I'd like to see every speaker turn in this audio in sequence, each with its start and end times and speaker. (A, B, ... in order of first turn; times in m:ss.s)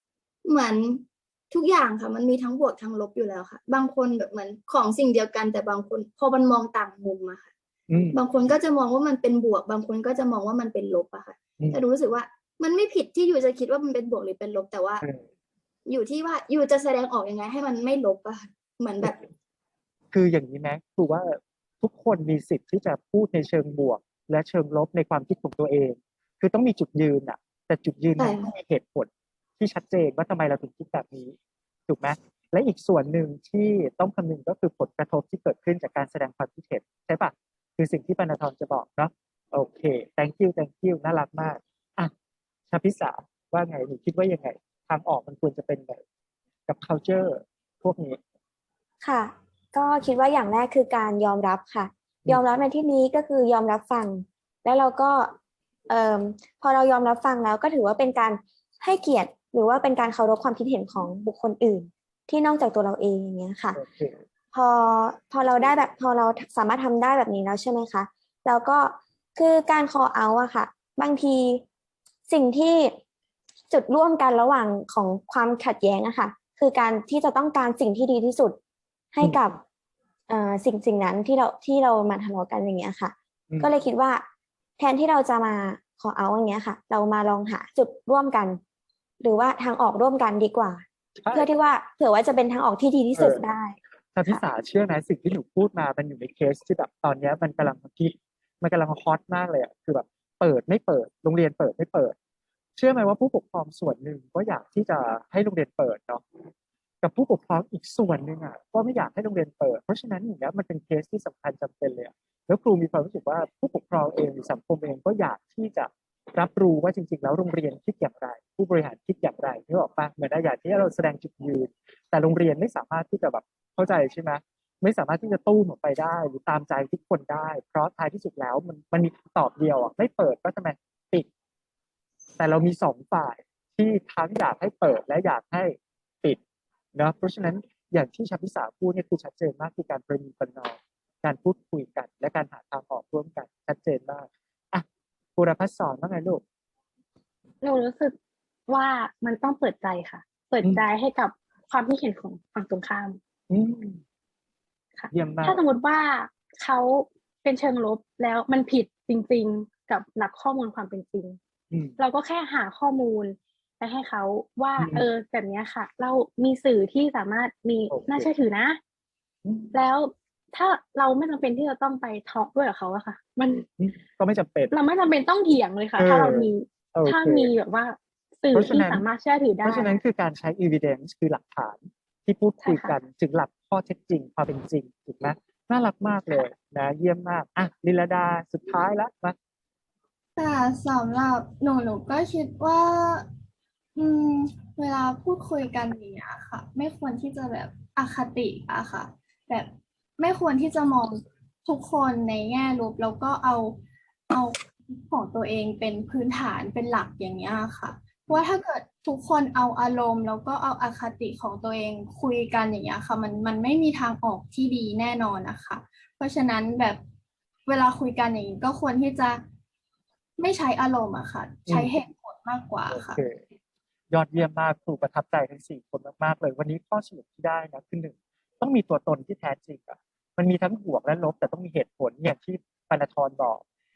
0:00.4-0:07.5 A
0:07.9-0:08.2 B
0:08.1-0:15.0 A
0:15.9-0:19.2 A
0:20.1-0:31.4 B
0:28.2-0:28.5 A
0:31.9-0:42.1 B
0:42.7-0:46.0 B
0:46.7-0:48.2 B
0:49.0-0:55.3 C
0:55.9-1:03.8 C
1:03.7-1:04.2 B
1:04.5-1:11.6 C
1:12.3-1:13.0 C
1:13.7-1:18.6 C
1:19.1-1:19.6 C
1:20.3-1:24.2 C
1:24.8-1:28.6 C
1:29.2-1:34.4 C
1:31.2-1:31.5 B
1:33.1-1:33.4 B
1:34.1-1:42.1 B
1:42.8-1:46.2 B
1:47.0-2:11.3 B
2:12.4-2:16.4 B
2:16.9-2:24.8 B
2:25.4-2:26.4 B
2:27.6-2:28.1 D
2:28.7-2:33.2 D
2:33.5-2:34.0 B
2:35.0-2:41.4 D
2:35.1-2:35.6 B
2:41.7-2:42.0 B
2:42.0-2:48.8 D
2:44.8-2:45.1 B
2:47.9-2:48.3 B
2:49.4-2:49.8 B
2:49.7-2:53.6 D
2:53.8-2:54.7 B
2:54.7-3:00.0 D
2:56.0-2:57.5 B
2:58.5-2:59.0 B
2:59.6-3:09.4 B
3:02.6-3:03.0 D
3:10.4-3:13.3 E
3:14.0-3:37.0 E
3:37.7-3:39.4 E
3:40.4-3:43.2 E
3:41.7-3:41.9 B
3:42.9-3:43.4 B
3:44.1-3:53.6 B